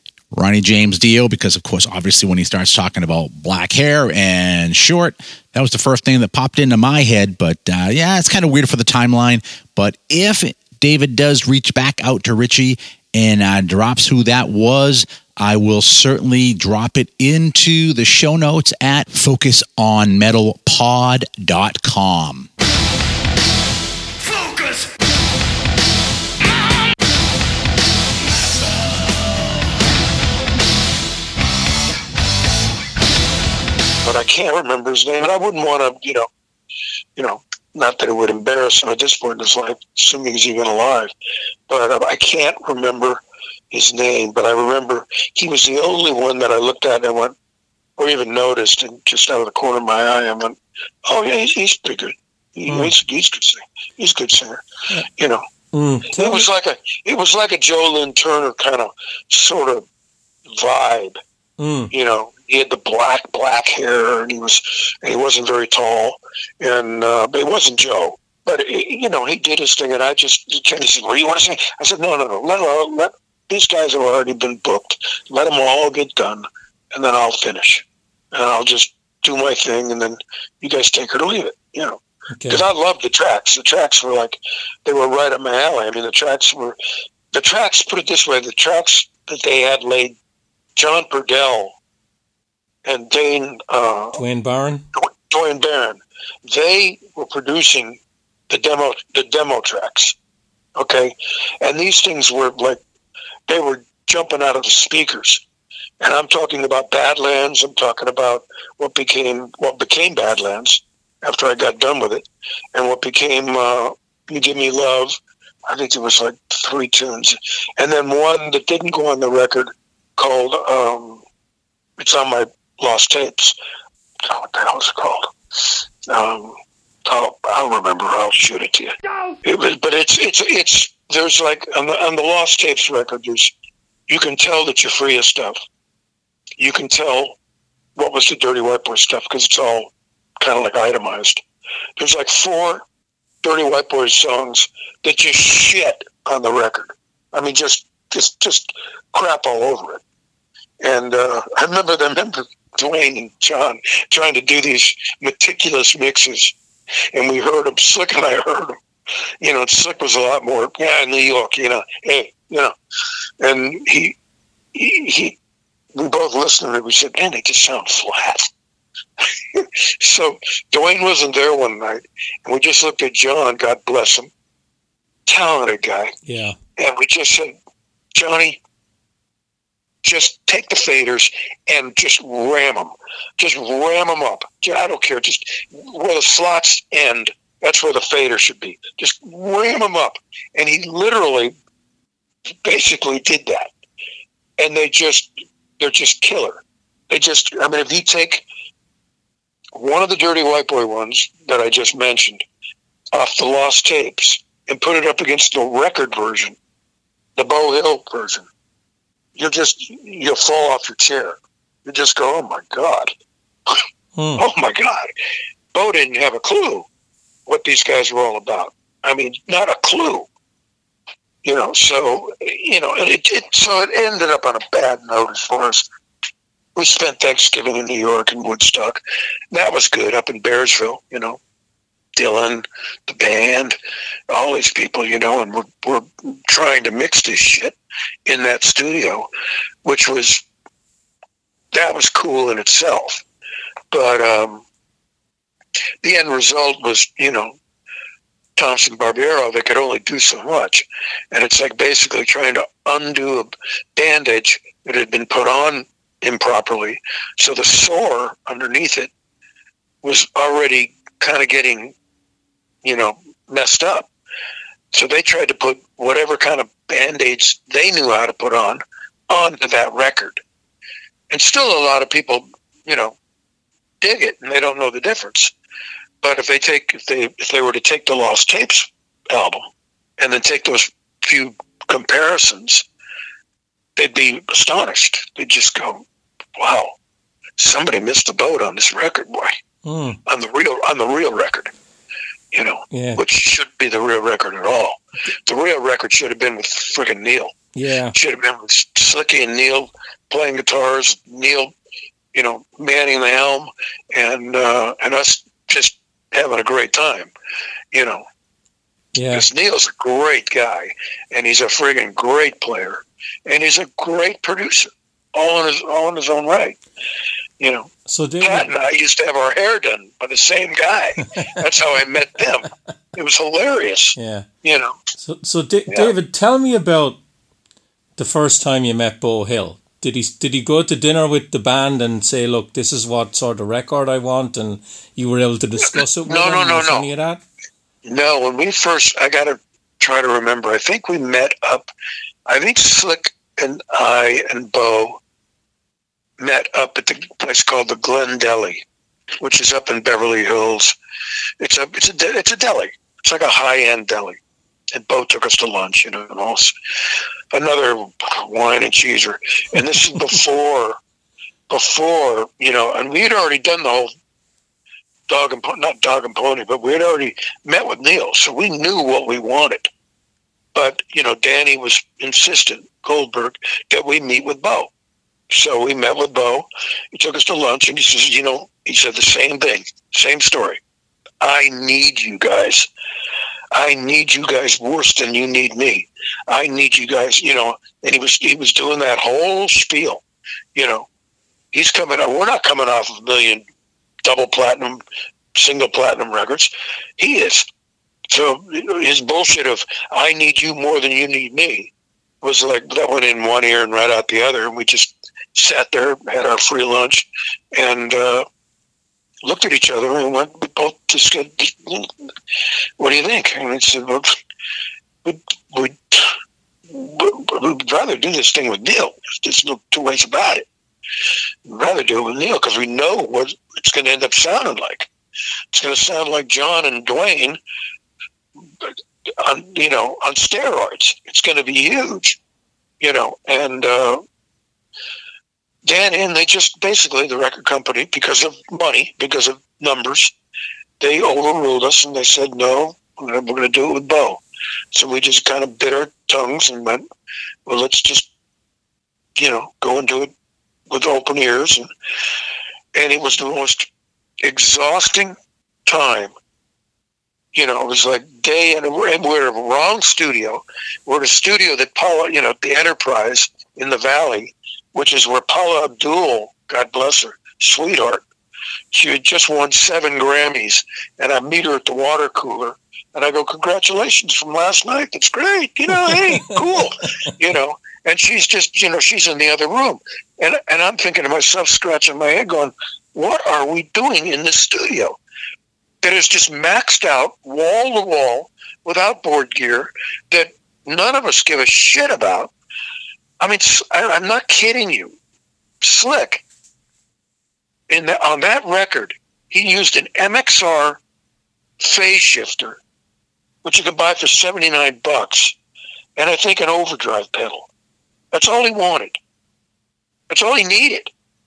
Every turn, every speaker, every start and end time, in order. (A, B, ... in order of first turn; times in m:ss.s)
0:00.3-0:22.5 A
0:34.0-0:36.3 B
0:37.2-0:41.1 B
0:41.7-0:47.4 B
0:48.0-0:54.6 B
0:52.7-0:52.9 C
0:55.2-0:55.4 B
0:55.7-0:56.5 C
0:56.1-0:59.9 B
1:00.6-1:01.2 B
1:01.6-1:01.9 C
1:01.9-1:26.8 B
1:22.4-1:22.6 C
1:27.3-1:30.2 B
1:30.8-1:31.8 B
1:32.8-1:34.2 B
1:34.2-1:34.8 C
1:35.0-1:38.0 B
1:38.5-1:40.2 B
1:40.8-1:42.8 B
1:43.5-1:45.4 B
1:46.0-2:01.2 B
2:02.0-2:03.6 B
2:04.2-2:08.9 B
2:09.4-2:13.5 B
2:14.1-2:15.6 B
2:16.6-2:17.4 B
2:18.0-2:21.4 B
2:22.0-2:22.8 B
2:23.4-2:30.0 B
2:30.8-2:36.5 B
2:37.1-2:38.8 B
2:39.4-2:42.7 B
2:43.4-2:44.2 B
2:44.7-2:45.4 B
2:45.9-2:48.5 B
2:49.5-2:54.3 B
2:55.3-2:56.1 B
2:56.3-2:56.6 C
2:56.8-2:57.5 B
2:58.2-2:58.6 B
3:00.0-3:11.5 B
3:12.6-3:13.7 B
3:14.6-3:18.4 B
3:19.8-3:22.4 B
3:23.1-3:26.6 B
3:27.4-3:28.5 B
3:29.4-3:33.1 B
3:34.2-3:34.4 C
3:34.4-3:35.1 B
3:35.7-3:36.9 B
3:37.5-3:40.3 B
3:41.4-3:45.8 B
3:46.8-3:49.0 B
3:49.5-3:51.4 B
3:52.2-3:53.8 B
3:54.3-3:59.3 B
3:59.8-4:00.4 B
4:01.7-4:03.2 B
4:03.9-4:04.6 B
4:06.0-4:07.6 B
4:08.6-4:19.1 B
4:20.0-4:21.9 B
4:22.8-4:24.1 B
4:24.9-4:30.4 B
4:31.3-4:33.2 B
4:34.0-4:35.5 B
4:36.2-4:39.7 B
4:40.2-4:42.8 B
4:44.0-4:46.0 B
4:46.6-4:47.0 B
4:47.6-4:49.6 B
4:49.8-4:50.2 C
4:50.3-4:51.7 B
4:52.5-4:57.5 B
4:52.9-4:53.2 C
4:57.8-4:58.2 C
4:58.1-5:01.7 B
5:02.3-5:07.3 B
5:07.9-5:08.2 B
5:09.2-5:09.5 C
5:09.3-5:16.8 B
5:17.6-5:25.0 B
5:18.1-5:18.7 C
5:24.2-5:24.5 C
5:25.2-5:27.2 C
5:28.2-5:37.4 C
5:36.3-5:37.1 B
5:38.0-5:41.9 B
5:42.5-5:45.2 B
5:46.4-5:48.8 B
5:49.4-5:51.0 B
5:51.6-5:54.4 B
5:54.9-5:56.7 B
5:57.5-6:01.0 B
6:01.7-6:04.1 B
6:05.3-6:09.9 B
6:10.8-6:14.9 B
6:15.5-6:20.8 B
6:21.4-6:22.9 B
6:23.7-6:30.2 B
6:30.8-6:31.1 B
6:31.7-6:33.6 B
6:34.2-6:35.0 B
6:35.6-6:37.7 B
6:38.3-6:41.9 B
6:42.4-6:48.5 B
6:49.4-6:52.1 B
6:53.0-6:54.3 B
6:55.2-6:56.3 B
6:56.9-7:00.7 B
7:01.7-7:05.1 B
7:05.7-7:07.6 B
7:09.4-7:12.4 B
7:13.0-7:14.2 B
7:15.8-7:20.3 B
7:21.0-7:24.4 B
7:24.9-7:27.0 B
7:27.7-7:28.3 B
7:29.4-7:30.3 B
7:30.9-7:31.9 B
7:32.9-7:33.9 B
7:34.4-7:36.3 B
7:37.5-7:48.2 B
7:48.9-8:05.2 B
7:56.0-7:56.6 C
8:06.0-8:12.5 B
8:13.4-8:15.2 B
8:15.8-8:16.4 B
8:17.9-8:21.0 B
8:21.8-8:22.8 B
8:23.6-8:25.6 B
8:26.2-8:27.7 B
8:28.3-8:29.2 B
8:30.3-8:31.1 B